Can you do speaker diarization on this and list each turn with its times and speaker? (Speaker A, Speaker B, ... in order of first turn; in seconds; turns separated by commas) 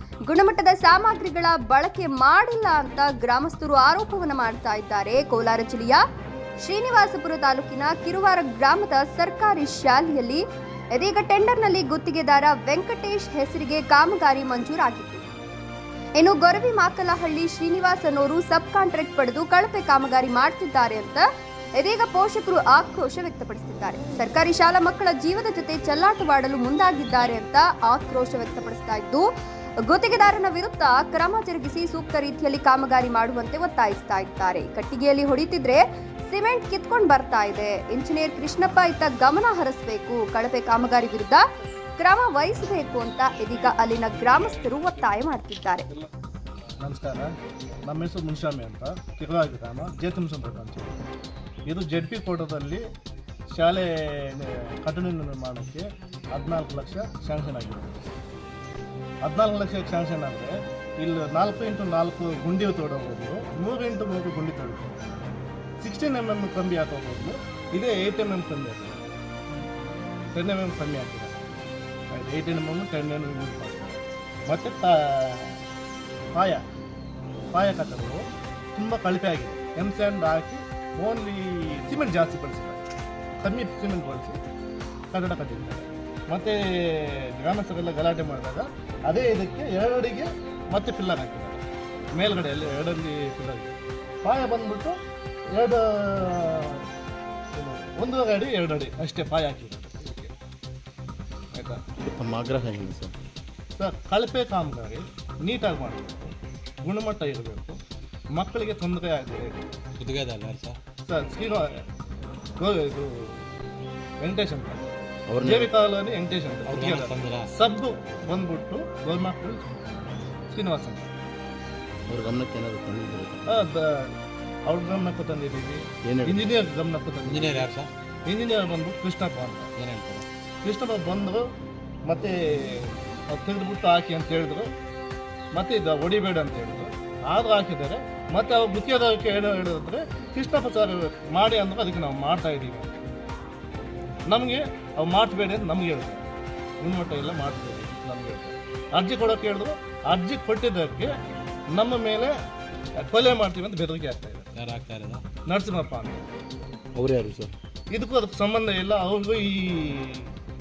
Speaker A: 0.3-6.0, Speaker A: 6.6-15.3, Speaker A: 16.2-21.2, Speaker A: 21.8-29.3, Speaker A: 29.9-41.4, Speaker A: 42.0-45.9, Speaker B: 43.7-45.0, Speaker B: 46.8-47.3, Speaker B: 47.8-51.0, Speaker B: 51.7-52.8, Speaker B: 53.5-58.0, Speaker B: 59.2-65.0, Speaker B: 65.8-69.0, Speaker B: 70.3-71.4, Speaker B: 72.1-75.6, Speaker B: 76.3-76.6, Speaker B: 77.5-82.8, Speaker B: 83.4-84.4, Speaker B: 85.1-95.0, Speaker B: 95.5-96.9, Speaker B: 97.5-100.3, Speaker B: 101.5-101.8, Speaker C: 102.0-103.1, Speaker B: 103.8-107.8, Speaker B: 108.3-109.7, Speaker D: 110.0-110.8, Speaker B: 111.0-111.8, Speaker B: 112.6-113.5, Speaker B: 114.2-114.9, Speaker C: 115.3-115.7, Speaker B: 115.4-119.7, Speaker D: 116.7-117.5, Speaker B: 120.5-121.1, Speaker C: 122.1-123.5, Speaker B: 123.5-127.7, Speaker C: 126.0-126.6, Speaker D: 127.2-127.9, Speaker B: 128.2-129.7, Speaker D: 129.8-130.2, Speaker B: 130.6-131.5, Speaker B: 132.0-134.7, Speaker B: 135.5-142.9, Speaker B: 144.3-146.2, Speaker B: 146.8-151.2, Speaker B: 151.7-152.3, Speaker B: 152.9-154.5, Speaker D: 154.6-155.2, Speaker B: 155.4-156.2, Speaker C: 156.9-157.5, Speaker B: 157.9-160.3